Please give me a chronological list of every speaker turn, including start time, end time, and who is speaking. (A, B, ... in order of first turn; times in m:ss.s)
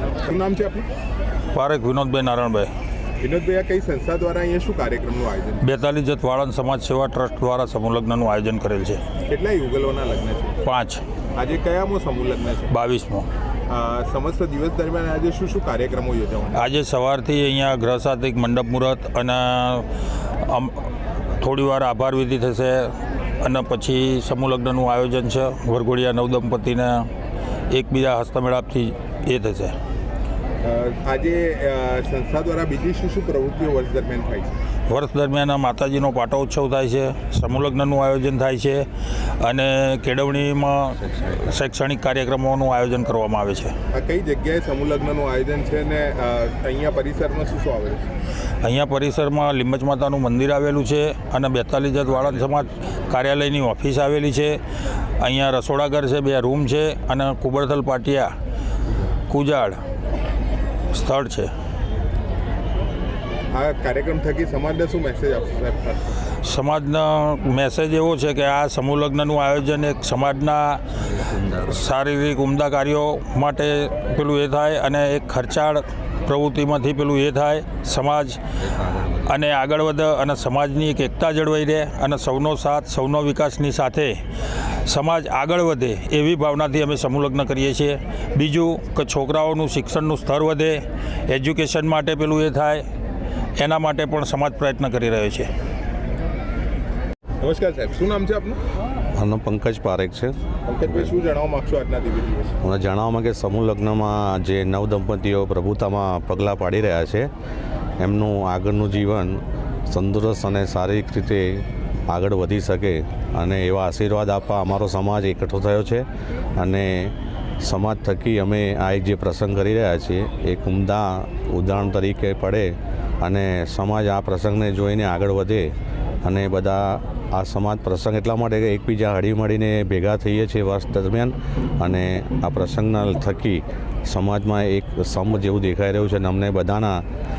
0:00.2-0:00.9 A
0:01.5-0:02.7 B
0:03.2-0:05.7 A
0:05.6-0:09.0 B
0:09.3-0:10.6 A
0:10.6-0:11.0 B
0:11.4-0:12.7 A
0:12.7-0:13.3 B
0:13.7-0:16.7 A
0:16.5-0:19.9 B
0:20.4-0:27.1 B
0:27.7-0:29.7 B
0:30.6-0:34.6 A
0:34.9-0:38.9 B
0:39.4-0:43.7 B
0:43.9-0:48.1 A
0:48.6-0:54.6 B
0:55.2-0:58.3 B
0:59.3-0:59.8 B
1:00.9-1:01.5 B
1:03.5-1:06.2 A
1:06.4-1:18.4 B
1:18.9-1:32.9 B
1:33.6-1:35.5 B
1:37.4-1:38.6 A
1:39.2-1:40.4 C
1:40.7-1:42.5 A
1:42.6-1:47.3 C
1:48.0-1:56.1 C
1:56.6-2:17.0 C